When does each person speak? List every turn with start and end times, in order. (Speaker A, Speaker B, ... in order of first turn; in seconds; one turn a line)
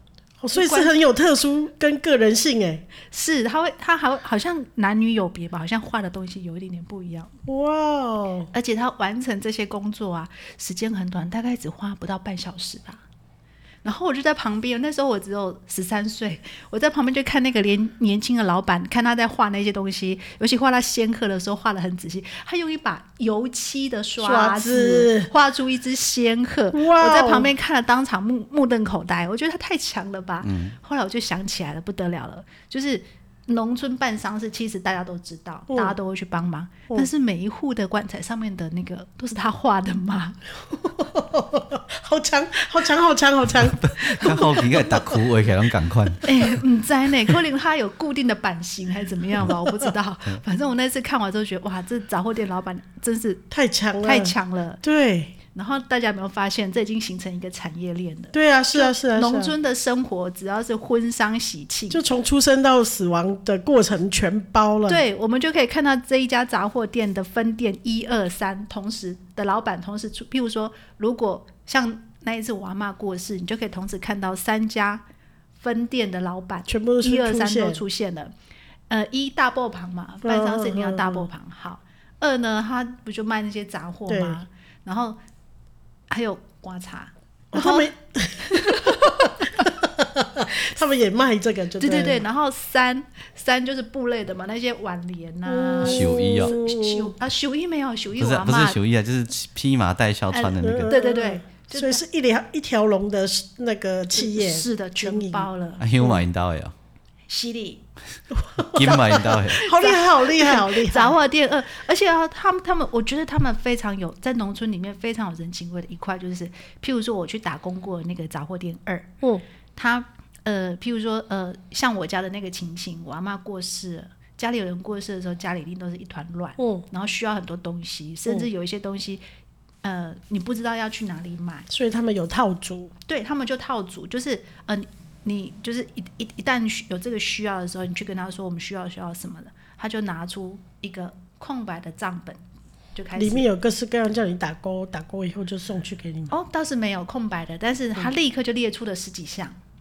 Speaker A: 0.4-2.9
Speaker B: 0.5-0.9
Speaker B: 3.1-7.3
Speaker A: 7.5-8.5
Speaker B: 8.5-13.0
Speaker B: 13.8-40.4
Speaker A: 24.2-25.3
Speaker A: 26.7-27.5
Speaker C: 30.4-30.8
Speaker A: 35.7-36.0
Speaker A: 40.7-45.2
Speaker C: 43.6-46.3
Speaker B: 46.2-53.4
Speaker A: 53.5-55.4
Speaker B: 54.0-54.8
Speaker B: 55.5-62.0
Speaker A: 58.3-59.5
Speaker A: 61.9-65.0
Speaker B: 64.9-75.0
Speaker B: 75.6-78.3
Speaker A: 76.7-77.8
Speaker B: 78.9-85.2
Speaker A: 80.2-81.3
Speaker A: 84.1-84.4
Speaker B: 86.1-87.9
Speaker A: 87.5-92.2
Speaker B: 88.4-89.7
Speaker B: 91.8-98.8
Speaker A: 95.5-97.1
Speaker C: 95.8-96.5
Speaker C: 98.2-100.9
Speaker B: 100.3-102.0
Speaker A: 100.6-106.2
Speaker B: 104.1-105.8
Speaker C: 105.8-106.7
Speaker B: 107.3-107.8
Speaker A: 108.3-111.2
Speaker C: 108.7-109.6
Speaker B: 109.6-119.1
Speaker B: 119.8-129.2
Speaker A: 126.6-126.8
Speaker B: 129.8-131.7
Speaker A: 131.7-132.9
Speaker B: 133.1-142.4
Speaker B: 142.9-143.5
Speaker A: 143.2-146.3
Speaker B: 146.3-149.6